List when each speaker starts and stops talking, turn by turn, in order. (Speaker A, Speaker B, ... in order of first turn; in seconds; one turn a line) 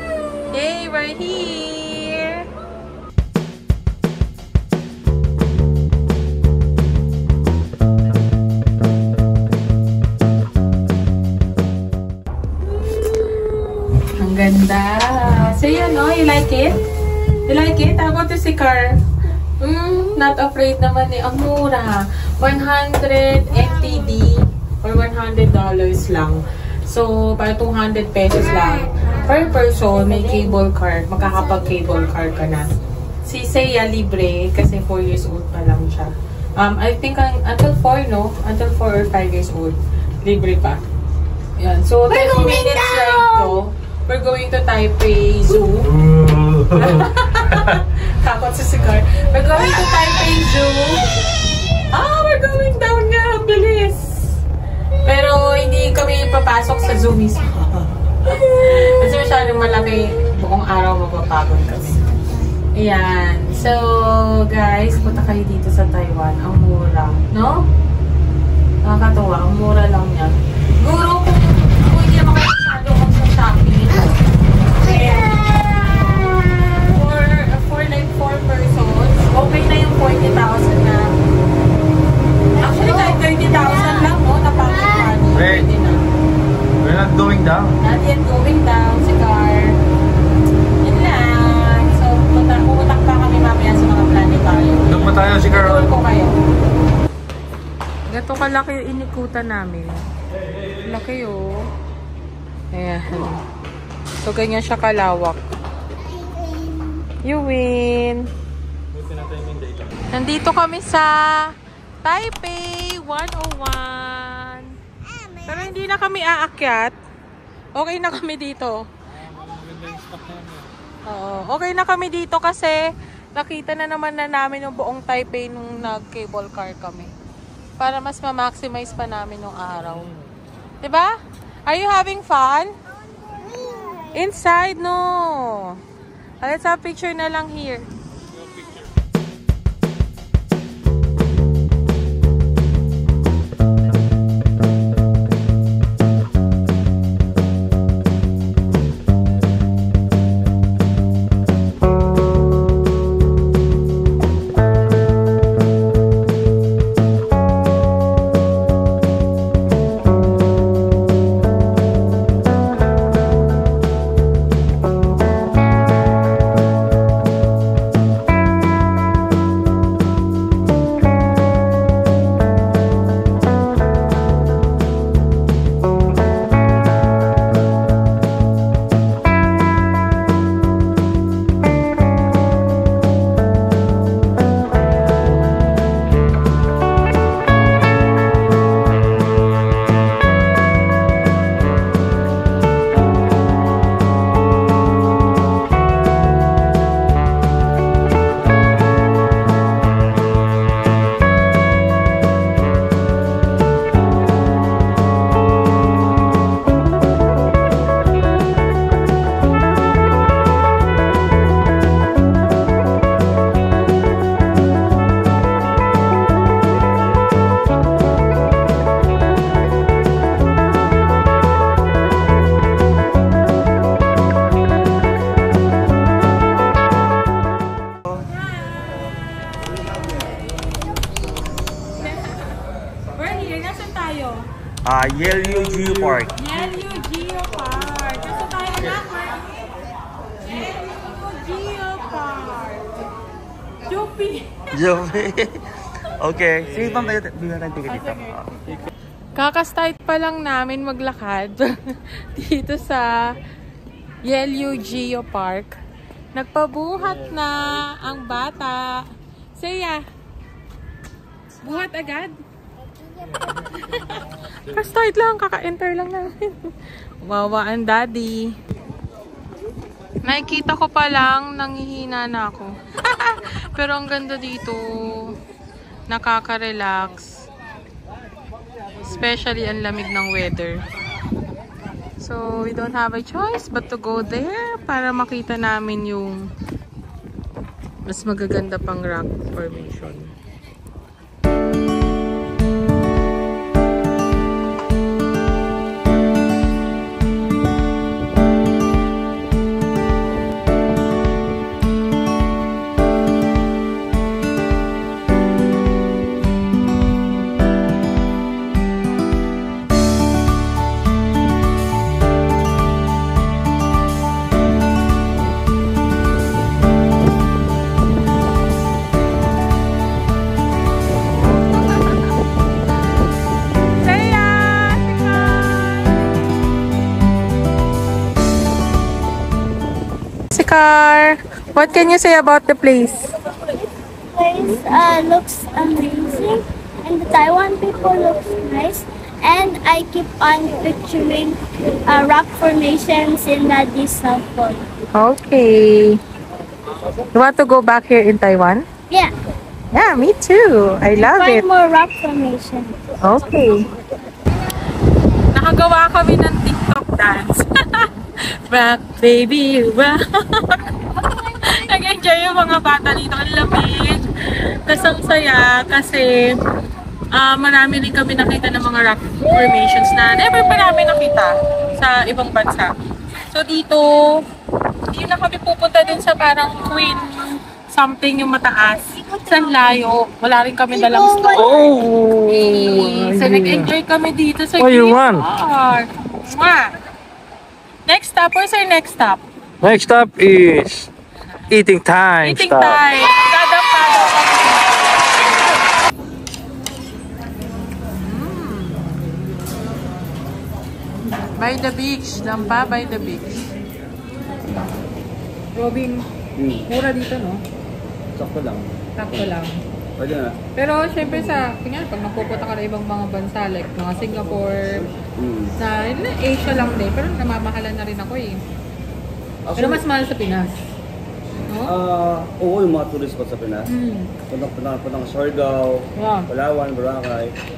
Speaker A: 0.5-2.5
Speaker A: 12.9-16.8
Speaker A: 17.5-19.0
Speaker A: 19.6-32.7
Speaker A: 33.2-40.9
Speaker A: 41.6-46.0
Speaker B: 42.1-43.5
Speaker C: 45.8-47.8
Speaker A: 46.7-51.1
Speaker A: 51.9-54.4
Speaker A: 55.0-62.0
Speaker A: 62.7-67.7
Speaker A: 68.8-74.2
Speaker A: 74.8-81.1
Speaker B: 74.9-75.7
Speaker A: 82.6-86.0
Speaker B: 82.8-84.1
Speaker C: 85.3-85.7
Speaker C: 86.8-87.8
Speaker A: 87.8-89.8
Speaker A: 90.8-96.4
Speaker C: 94.9-95.9
Speaker A: 98.1-100.1
Speaker C: 100.4-100.8
Speaker A: 100.8-101.7
Speaker A: 102.7-103.4
Speaker A: 104.2-105.4
Speaker B: 106.2-107.0
Speaker A: 107.2-108.3
Speaker C: 108.9-109.9
Speaker A: 110.1-114.8
Speaker A: 115.5-117.0
Speaker A: 117.8-118.9
Speaker C: 119.1-120.7
Speaker A: 121.1-127.1
Speaker A: 127.8-130.1
Speaker A: 130.8-131.1
Speaker A: 131.7-132.7
Speaker B: 133.4-134.1
Speaker A: 134.1-135.8
Speaker A: 136.4-137.9
Speaker A: 228.3-229.1
Speaker A: 231.9-232.6
Speaker A: 233.1-234.5
Speaker D: 234.8-236.4
Speaker A: 236.3-239.6
Speaker A: 240.4-242.9
Speaker A: 243.9-244.5
Speaker D: 244.7-248.5
Speaker C: 246.8-247.2
Speaker A: 247.9-248.5
Speaker A: 249.4-253.2
Speaker A: 254.2-255.8
Speaker A: 256.3-259.1
Speaker C: 257.0-258.1
Speaker A: 259.6-260.0
Speaker A: 261.6-262.4
Speaker C: 263.4-263.9
Speaker A: 263.7-268.6
Speaker A: 270.2-275.4
Speaker A: 276.1-277.5
Speaker A: 279.0-280.8
Speaker A: 282.2-286.5
Speaker A: 288.1-290.3
Speaker A: 321.3-322.2
Speaker A: 324.0-326.2
Speaker A: 330.5-333.3
Speaker B: 334.3-344.9
Speaker A: 345.1-346.2
Speaker A: 347.3-348.9
Speaker A: 349.9-351.6
Speaker B: 351.1-353.0
Speaker A: 353.2-353.9
Speaker A: 355.5-360.9
Speaker A: 361.6-366.6
Speaker A: 367.3-372.9
Speaker A: 373.5-374.4
Speaker A: 375.1-386.9
Speaker B: 380.9-382.1
Speaker C: 381.5-383.9
Speaker C: 384.8-385.5
Speaker A: 388.1-389.4
Speaker C: 389.8-391.1
Speaker C: 391.7-393.0
Speaker A: 392.4-395.3
Speaker A: 398.2-399.2
Speaker A: 401.6-403.6
Speaker D: 404.6-404.9
Speaker A: 405.8-406.2
Speaker D: 406.6-406.9
Speaker A: 406.9-407.6
Speaker D: 408.4-409.6
Speaker A: 409.2-409.8
Speaker D: 410.2-410.6
Speaker A: 410.8-415.1
Speaker D: 415.2-415.8
Speaker A: 415.8-418.6
Speaker D: 419.6-420.1
Speaker A: 419.8-420.9
Speaker A: 421.7-422.0
Speaker D: 421.8-423.9
Speaker A: 423.9-424.3
Speaker D: 424.5-427.6
Speaker A: 426.2-426.5